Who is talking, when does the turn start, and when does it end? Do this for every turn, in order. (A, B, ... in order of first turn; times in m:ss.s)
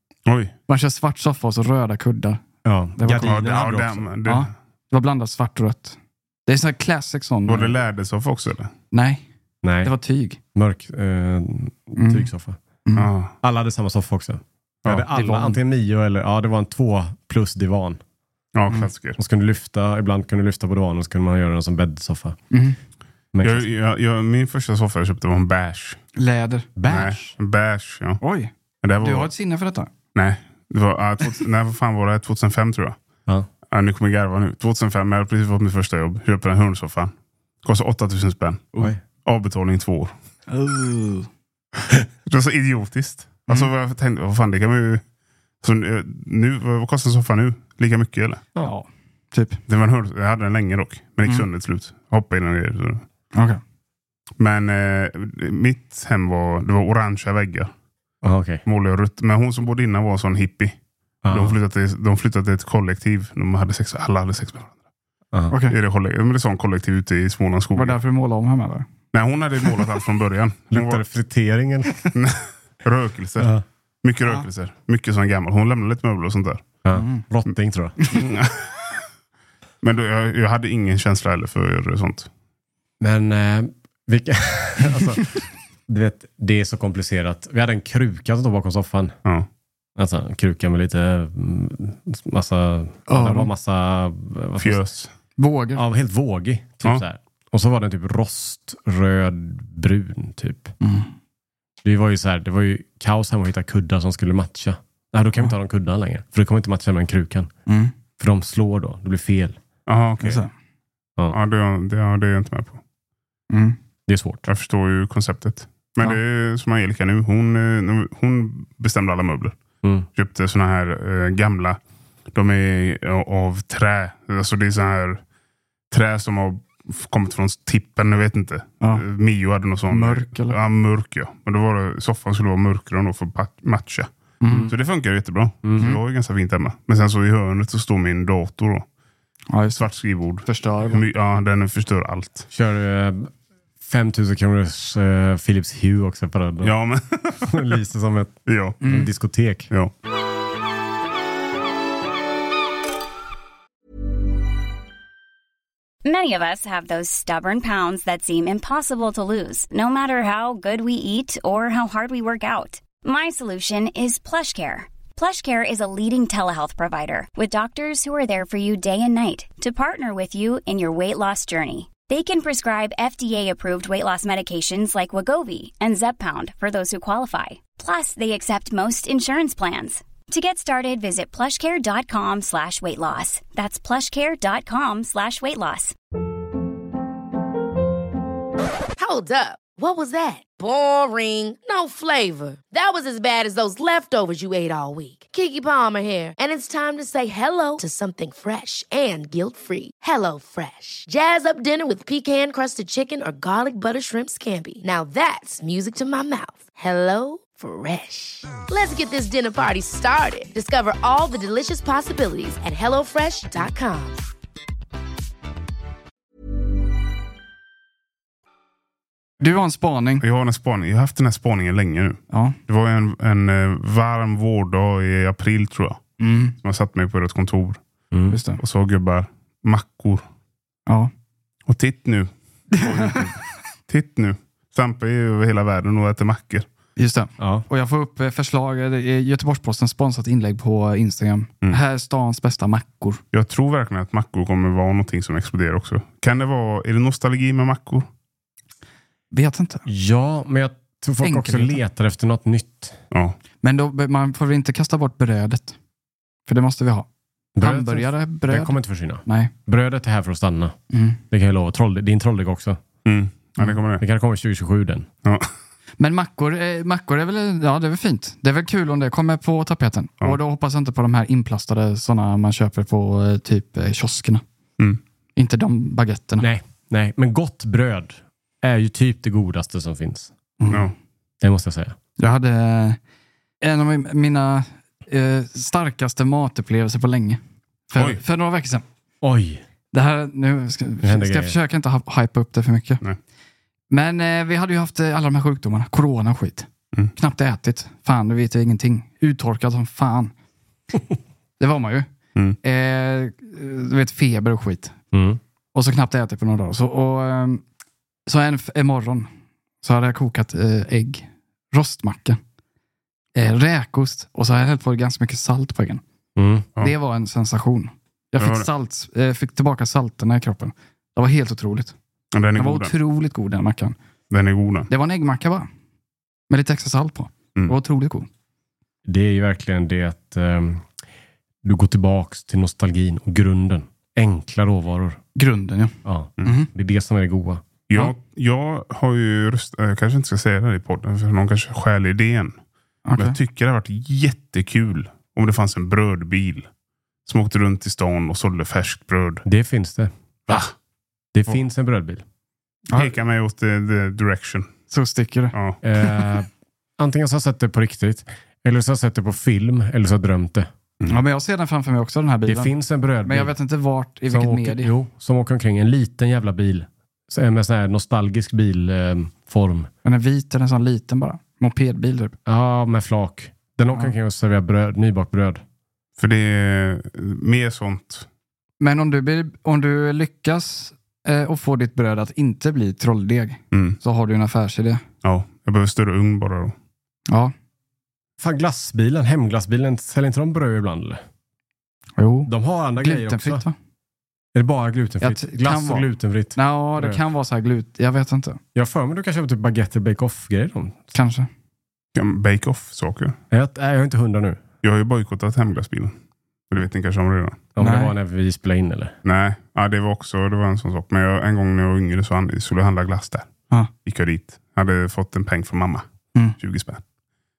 0:00.3-0:00.5 A
0:00.7-0:02.4 B
0:02.6-0:04.0 C
0:03.0-0:03.5 B
0:03.2-0:04.5 A
0:04.2-0:07.8 B
0:07.5-0:08.7 A
0:08.9-0:09.3 B
0:09.6-0:09.9 C
0:09.8-0:10.4 B
0:10.6-0:12.6 C
0:12.0-0:12.3 B
0:12.8-0:13.1 B
0:13.0-0:13.3 A
0:13.4-0:18.0 C
0:15.1-0:15.6 B
0:18.6-0:19.2 A
0:19.2-0:22.4 C
0:22.5-0:22.8 B
0:23.3-0:23.7 C
0:23.4-0:26.0 A
0:26.2-0:27.1 B
0:26.8-0:27.4 C
0:26.9-0:28.2 A
0:28.2-0:29.9 B
0:28.8-0:29.3 A
0:30.2-0:33.0 A
0:33.7-0:40.1 A
0:40.5-0:41.3 B
0:42.3-0:45.0 A
0:45.6-0:48.4 A
0:48.6-0:49.6 B
0:49.7-0:53.0 A
0:53.4-0:53.6 B
0:54.4-0:57.7 A
0:58.2-0:58.6 C
0:58.7-1:00.8 A
1:01.2-1:01.6 C
1:01.3-1:04.7 A
1:05.5-1:05.8 B
1:05.7-1:08.0 A
1:07.8-1:08.9 B
1:09.1-1:11.0 A
1:10.7-1:12.1 C
1:12.2-1:13.5 A
1:13.4-1:13.6 C
1:14.0-1:16.7 A
1:16.8-1:18.0 C
1:17.0-1:17.2 B
1:18.1-1:18.8 A
1:19.8-1:22.3 A
1:23.0-1:29.2 C
1:30.0-1:34.8 C
1:33.1-1:33.5 B
1:34.6-1:35.1 A
1:35.4-1:35.8 B
1:35.8-1:40.7 C
1:40.8-1:41.1 B
1:41.8-1:47.5 C
1:47.7-1:47.9 B
1:48.2-1:49.6 C
1:49.9-1:50.4 A
1:50.2-1:50.5 B
1:51.3-1:52.8 A
1:53.5-1:53.8 B
1:54.1-1:54.4 C
1:54.5-1:59.6 A
2:00.2-2:01.8 A
2:02.3-2:05.2 A
2:05.9-2:14.1 A
2:09.9-2:10.6 B
2:14.4-2:14.7 B
2:14.7-2:18.9 A
2:15.6-2:15.9 C
2:19.5-2:19.9 B
2:19.8-2:22.5 A
2:20.4-2:21.0 B
2:22.5-2:26.7 C
2:26.6-2:27.7 A
2:27.4-2:29.7 C
2:28.5-2:28.8 A
2:28.8-2:29.1 B
2:36.0-3:06.0 D
3:09.0-3:34.2 E
3:39.4-3:40.2 B
3:40.2-3:47.8 A
3:42.3-3:42.6 B
3:46.2-3:46.6 B
3:48.3-3:48.6 B
3:48.6-3:50.2 A
3:50.9-3:51.1 B
3:51.7-3:56.7 A
3:52.7-3:53.2 B
3:57.0-4:03.2 B
3:57.4-3:57.7 C
4:03.3-4:08.1 A
4:09.3-4:09.8 B
4:09.8-4:13.0 C
4:11.2-4:11.8 B
4:13.6-4:15.8 B
4:16.5-4:17.1 B
4:17.6-4:20.8 C
4:17.6-4:19.5 B
4:20.9-4:21.2 B
4:21.3-4:22.8 C
4:23.0-4:24.0 A
4:24.0-4:25.1 C
4:25.2-4:25.5 A
4:26.0-4:34.4 B
4:35.4-4:36.5 B
4:36.4-4:40.8 C
4:40.6-4:40.9 B
4:41.4-4:42.0 C
4:42.2-4:43.0 B
4:43.6-4:47.4 B
4:47.9-4:48.8 B
4:49.2-4:49.6 C
4:49.9-4:53.0 B
4:51.0-4:51.6 C
4:53.9-5:00.3 B
5:01.6-5:02.1 B
5:02.6-5:05.0 B
5:05.1-5:05.4 C
5:05.7-5:07.6 B
5:08.3-5:09.3 B
5:09.8-5:12.4 B
5:13.4-5:16.0 B
5:16.4-5:16.7 C
5:16.8-5:21.9 B
5:18.4-5:18.7 A
5:22.3-5:23.0 A
5:22.6-5:24.0 B
5:24.3-5:24.9 A
5:24.9-5:25.7 B
5:26.5-5:28.3 B
5:29.1-5:30.9 C
5:31.6-5:35.2 C
5:35.4-5:36.7 B
5:36.0-5:37.6 C
5:37.9-5:42.6 A
5:43.1-5:43.4 B
5:43.2-5:46.7 A
5:47.3-5:49.4 A
5:49.4-5:50.6 C
5:51.3-5:52.2 C
5:52.9-5:54.7 A
5:54.9-5:56.2 B
5:55.5-5:55.8 A
5:55.8-6:00.7 C
6:01.1-6:04.9 B
6:02.5-6:03.5 C
6:04.3-6:09.9 C
6:10.0-6:12.4 B
6:12.4-6:15.6 C
6:16.2-6:18.3 A
6:18.8-6:25.0 B
6:23.7-6:24.0 A
6:25.2-6:26.8 A
6:28.4-6:31.2 C
6:32.2-6:33.7 B
6:32.5-6:33.7 C
6:34.5-6:37.2 C
6:35.2-6:38.6 B
6:38.8-6:41.1 C
6:41.1-6:41.5 B
6:42.2-6:43.4 A
6:43.5-6:44.6 C
6:44.8-6:46.2 A
6:46.7-6:47.6 A
6:47.8-6:49.2 C
6:47.8-6:48.1 B
6:49.2-6:53.5 A
6:54.0-6:56.1 A
6:56.6-6:57.0 A